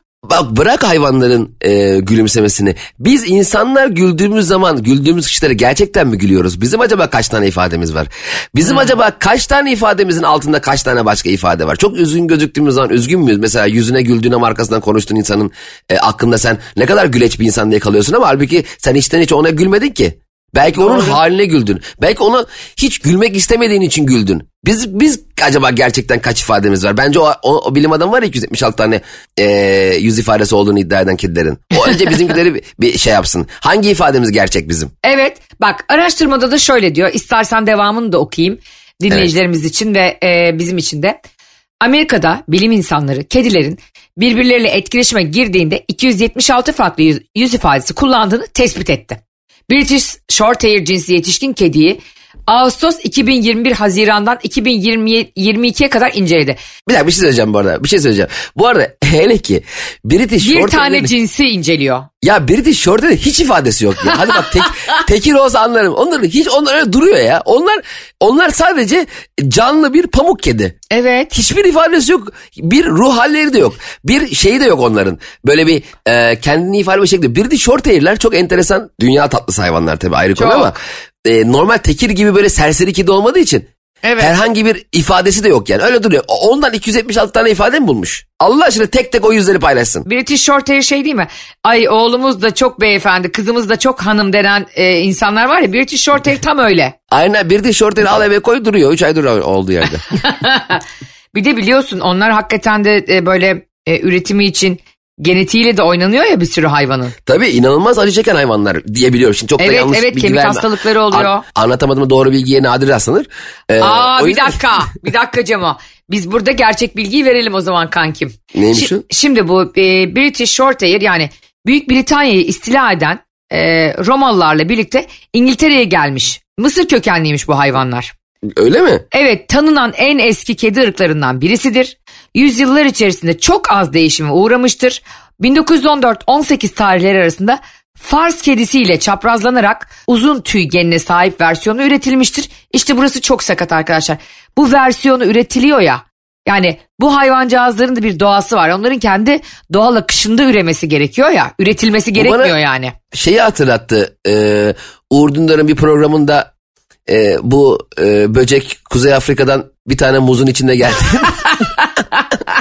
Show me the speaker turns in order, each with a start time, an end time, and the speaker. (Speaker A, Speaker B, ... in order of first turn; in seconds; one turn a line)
Speaker A: 0.2-34.9
Speaker B: 8.6-8.9
Speaker B: 20.8-21.2
Speaker B: 35.0-41.2
Speaker B: 41.8-56.6
Speaker A: 56.9-61.1
Speaker B: 60.4-62.1
Speaker A: 62.2-70.8
Speaker B: 64.4-64.7
Speaker B: 70.9-71.3
Speaker A: 71.3-83.7
Speaker B: 80.4-80.7
Speaker B: 84.0-84.3
Speaker A: 84.2-90.1
Speaker B: 90.1-97.0
Speaker A: 97.1-100.0
Speaker B: 100.2-100.8
Speaker B: 101.3-107.2
Speaker A: 107.3-114.6
Speaker B: 109.6-111.4
Speaker B: 113.8-128.1
Speaker A: 118.5-119.0
Speaker A: 128.6-129.0
Speaker B: 129.1-152.9
Speaker A: 152.2-152.6
Speaker A: 153.1-156.5
Speaker A: 157.1-161.6